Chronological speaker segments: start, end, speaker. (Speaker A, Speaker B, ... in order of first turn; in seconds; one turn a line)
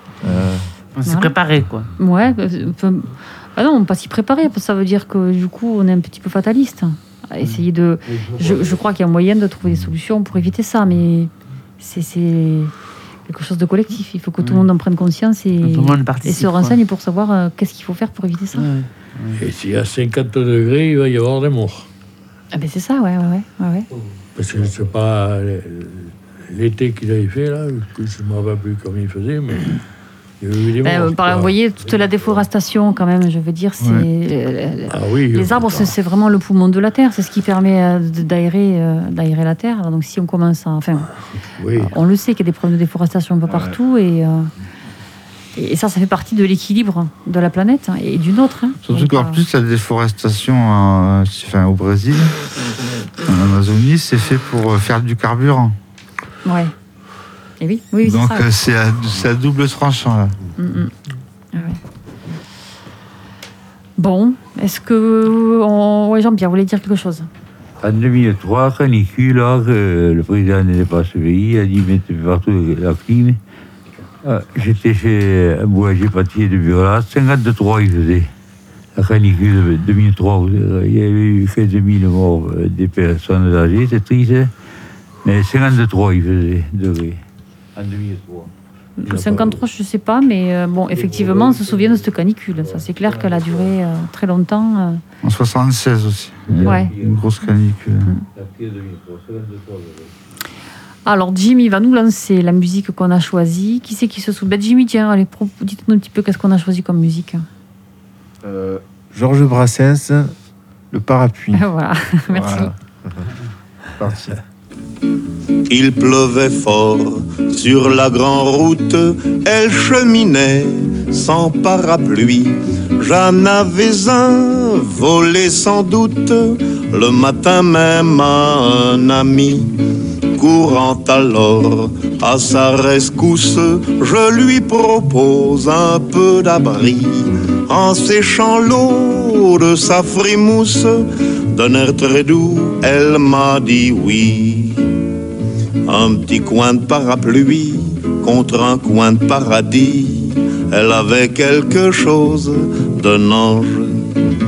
Speaker A: 0.2-0.7
Speaker B: 0.9-1.9
Speaker C: 1.1-1.4
Speaker C: 2.0-12.7
Speaker D: 8.2-8.8
Speaker C: 13.3-18.7
Speaker B: 14.4-14.7
Speaker B: 15.6-16.8
Speaker B: 18.5-19.4
Speaker E: 19.4-21.9
Speaker C: 22.5-23.9
Speaker E: 24.4-29.8
Speaker E: 30.4-31.6
Speaker C: 30.8-41.1
Speaker F: 33.8-34.1
Speaker E: 34.9-36.0
Speaker E: 41.6-42.0
Speaker C: 41.7-44.5
Speaker C: 45.6-49.4
Speaker F: 48.8-52.4
Speaker F: 53.2-55.8
Speaker C: 56.5-56.7
Speaker C: 57.6-58.5
Speaker F: 58.0-60.4
Speaker C: 60.6-60.9
Speaker C: 61.5-61.8
Speaker C: 64.0-67.3
Speaker D: 67.8-73.4
Speaker D: 74.2-78.3
Speaker D: 79.0-84.5
Speaker D: 85.2-87.2
Speaker D: 87.8-88.5
Speaker C: 89.0-95.0
Speaker E: 89.1-89.5
Speaker D: 89.1-89.5
Speaker D: 90.9-93.7
Speaker F: 95.2-98.1
Speaker D: 96.5-97.3
Speaker C: 96.6-96.9
Speaker D: 98.3-100.1
Speaker C: 101.0-107.5
Speaker A: 108.4-110.4
Speaker A: 110.9-111.7
Speaker C: 111.5-112.7
Speaker A: 112.3-113.3
Speaker A: 114.0-114.4
Speaker G: 115.7-144.8
Speaker G: 145.8-154.2